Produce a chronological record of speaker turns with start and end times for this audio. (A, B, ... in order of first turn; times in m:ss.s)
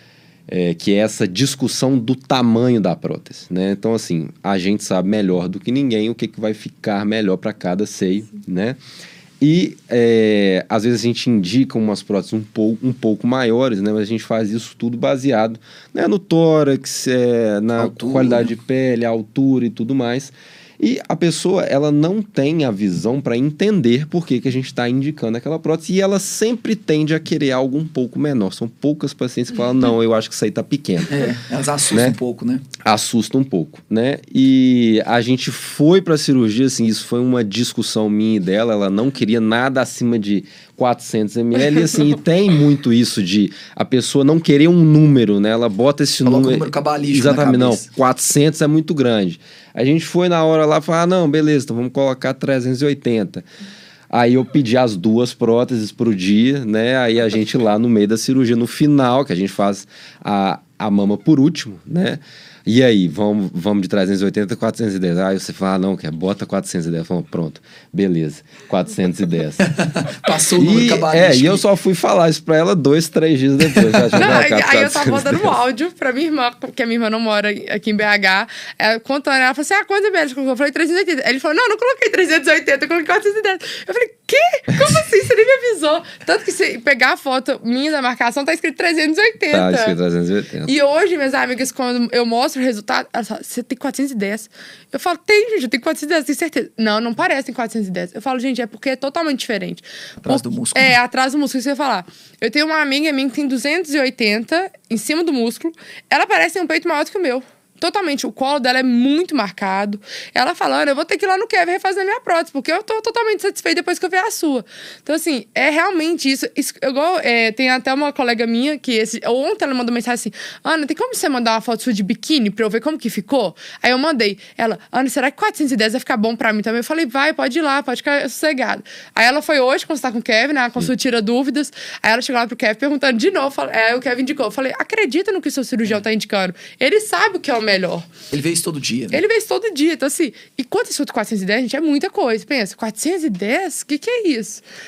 0:00.5-0:08.8 A
0:09.4-0:31.3 A
0:17.8-0:18.5 B
0:31.1-0:32.6 B
0:31.9-0:32.2 A
0:32.8-0:53.5 A
0:46.2-0:47.9 B
0:54.1-1:09.7 A
1:09.6-1:11.6 B
1:10.6-1:15.6 A
1:13.8-1:14.2 B
1:14.2-1:30.0 C
1:29.5-1:30.7 A
1:30.7-2:18.1 C
1:40.2-1:40.9 B
2:18.3-2:19.2 B
2:19.1-2:24.6 C